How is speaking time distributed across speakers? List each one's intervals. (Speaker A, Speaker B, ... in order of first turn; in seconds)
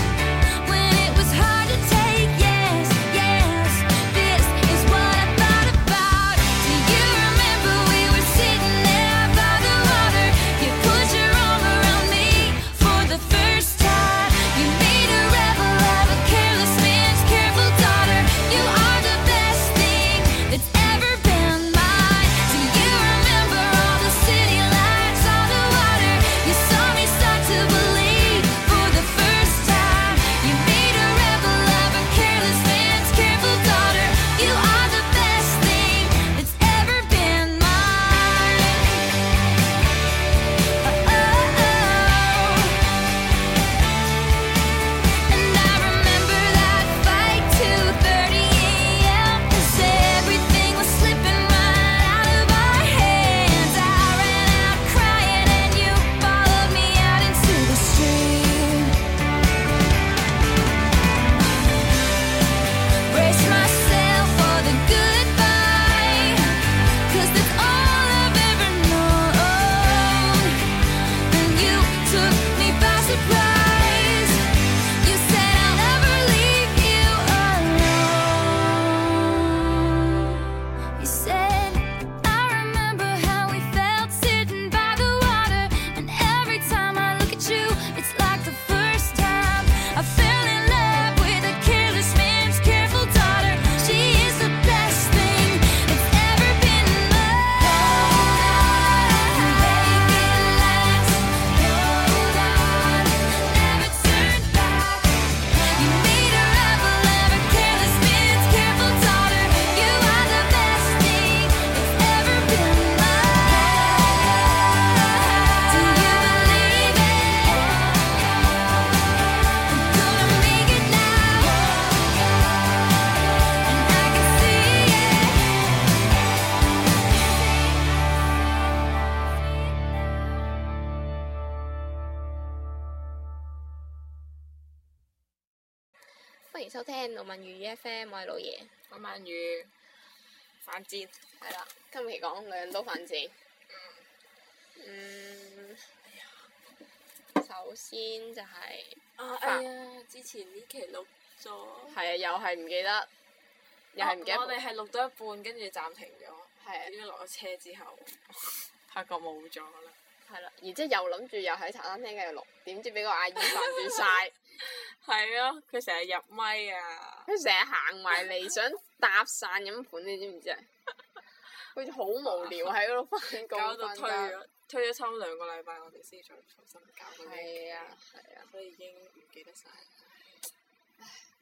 Speaker A: 0.5-39.0, 40.8-42.9, 45.2-59.0, 63.1-70.7, 71.2-118.5, 119.6-122.5, 123.6-125.5
Speaker B: 136.5-138.7, 141.4-143.3, 144.8-145.9, 147.3-149.7, 151.9-153.1, 153.9-154.6, 156.6-156.9, 160.2-164.4, 167.3-170.7, 171.7-174.4, 177.1-178.5, 181.0-181.2
Speaker C: 138.9-139.7, 140.6-141.2, 143.7-144.0, 149.2-151.9, 154.0-159.9, 164.6-167.3, 173.5-180.1